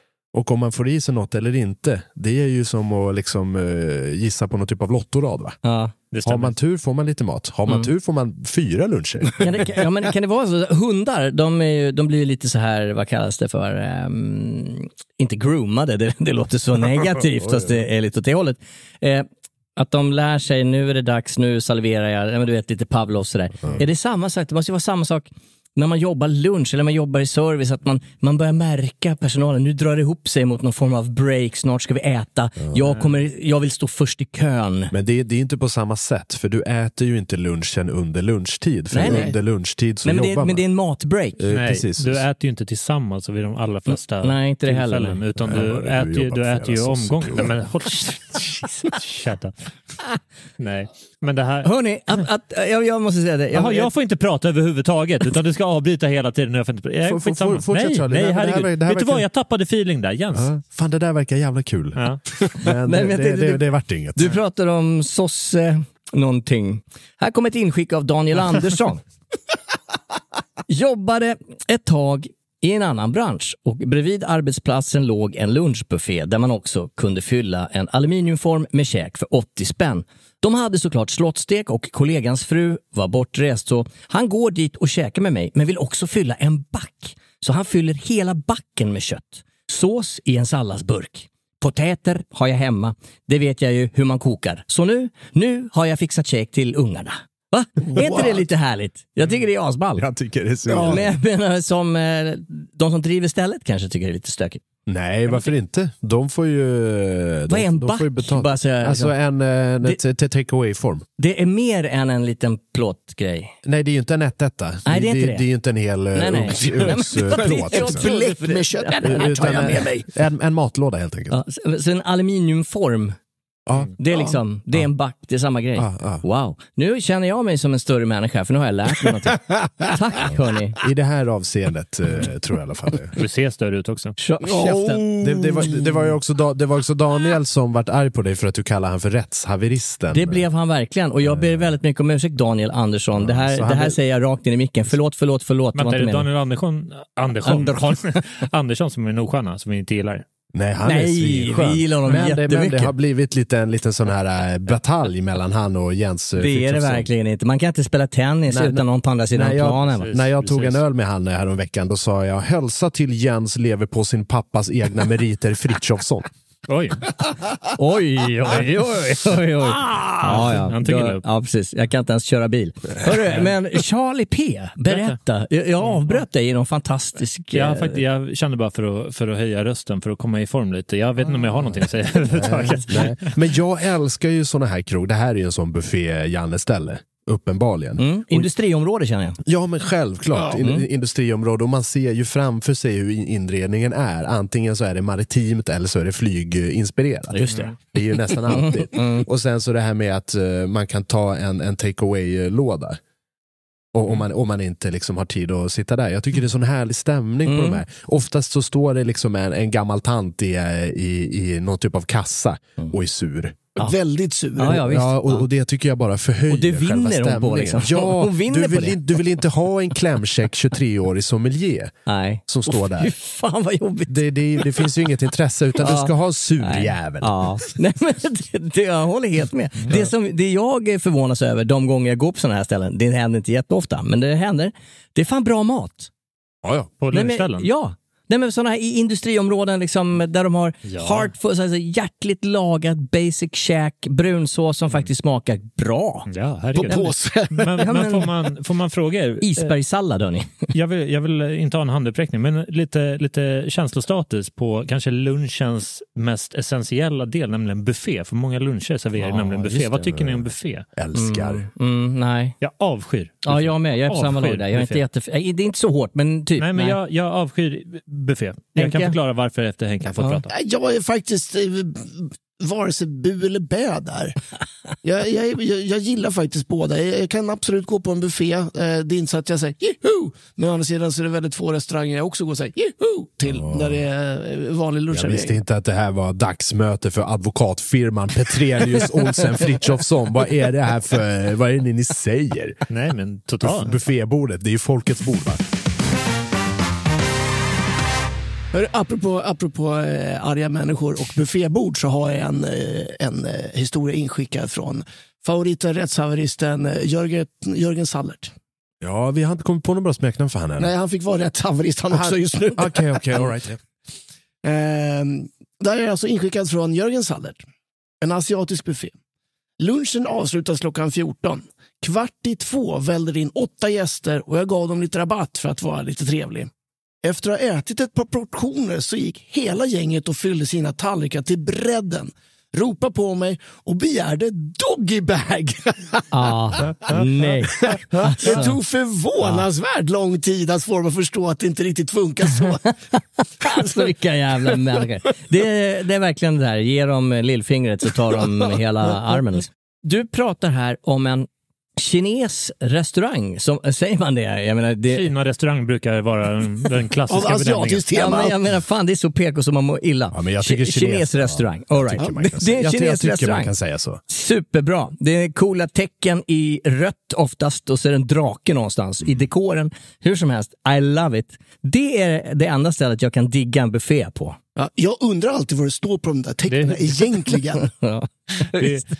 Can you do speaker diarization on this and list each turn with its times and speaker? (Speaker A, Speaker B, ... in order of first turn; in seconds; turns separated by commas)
Speaker A: 0.3-5.6, Speaker B: 5.6-5.9, Speaker C: 6.1-6.5, Speaker A: 6.2-9.7, Speaker B: 9.4-34.9, Speaker A: 17.4-17.7, Speaker A: 34.9-40.6, Speaker B: 38.9-39.3, Speaker D: 39.0-39.4, Speaker B: 40.0-41.4, Speaker A: 41.4-42.2, Speaker C: 41.5-49.5, Speaker B: 43.9-45.2, Speaker A: 45.4-47.5, Speaker C: 50.6-51.7, Speaker B: 51.6-53.9, Speaker C: 53.5-60.5, Speaker A: 57.0-59.2, Speaker A: 60.4-64.3, Speaker B: 62.6-69.0, Speaker B: 70.7-100.0, Speaker D: 97.8-98.4, Speaker A: 100.0-101.1, Speaker D: 100.7-101.1, Speaker B: 100.8-104.6, Speaker A: 104.9-111.0, Speaker B: 107.5-109.2, Speaker B: 111.2-113.5, Speaker A: 113.6-118.1, Speaker B: 114.9-115.5, Speaker B: 116.1-119.8, Speaker D: 116.8-120.1, Speaker A: 119.0-121.4, Speaker B: 121.3-123.2, Speaker B: 124.0-130.8, Speaker A: 125.8-126.2, Speaker A: 130.8-133.1, Speaker C: 133.2-134.2, Speaker B: 134.2-135.1, Speaker D: 134.4-135.9, Speaker A: 135.2-140.4, Speaker B: 140.1-146.3, Speaker A: 141.2-141.7, Speaker A: 143.2-144.0, Speaker C: 145.8-150.2, Speaker B: 147.4-148.2, Speaker A: 150.5-157.1, Speaker B: 150.8-152.9, Speaker B: 156.4-160.1, Speaker A: 158.5-166.3, Speaker C: 160.0-160.8, Speaker C: 166.7-167.1, Speaker B: 167.8-178.0, Speaker C: 170.2-171.2, Speaker C: 174.9-175.2, Speaker C: 175.8-176.2, Speaker C: 177.5-183.3, Speaker A: 182.3-188.5, Speaker B: 188.0-189.4, Speaker A: 189.4-203.0, Speaker B: 190.6-190.8, Speaker B: 197.3-197.8, Speaker B: 198.3-199.3, Speaker A: 203.9-213.7, Speaker B: 207.5-207.8, Speaker D: 213.8-214.8, Speaker B: 214.6-215.5, Speaker A: 214.6-221.9, Speaker B: 216.5-219.0, Speaker B: 222.1-224.9, Speaker A: 222.5-223.1, Speaker A: 224.1-227.3, Speaker B: 225.8-236.1, Speaker A: 236.6-236.9, Speaker C: 237.0-237.7, Speaker B: 237.1-246.3, Speaker C: 240.9-241.3, Speaker C: 246.3-249.7, Speaker D: 246.8-247.8, Speaker B: 247.8-248.3, Speaker B: 249.4-250.6, Speaker C: 250.7-260.9, Speaker B: 259.2-260.0, Speaker A: 260.0-261.7, Speaker B: 261.1-262.6, Speaker C: 262.6-265.0, Speaker B: 263.5-267.0, Speaker C: 266.6-270.5, Speaker B: 268.8-269.2, Speaker D: 270.5-274.4, Speaker D: 275.0-285.6, Speaker A: 283.5-284.0, Speaker A: 285.1-292.8, Speaker C: 292.9-293.9, Speaker A: 293.6-295.6, Speaker D: 298.7-308.5, Speaker A: 309.0-310.9, Speaker D: 310.8-313.5, Speaker A: 312.1-313.8, Speaker D: 314.6-317.6, Speaker D: 318.2-319.1, Speaker D: 319.8-326.7, Speaker D: 327.2-336.3, Speaker B: 336.3-338.8, Speaker D: 336.8-337.3, Speaker D: 337.8-342.9, Speaker D: 343.6-344.1, Speaker B: 343.6-355.3, Speaker D: 344.6-344.9, Speaker C: 355.1-358.1, Speaker D: 357.3-358.6, Speaker B: 358.1-363.7, Speaker A: 360.3-364.2, Speaker B: 364.3-374.6, Speaker D: 374.8-377.9, Speaker C: 376.7-377.2, Speaker B: 377.8-379.0, Speaker C: 378.8-379.1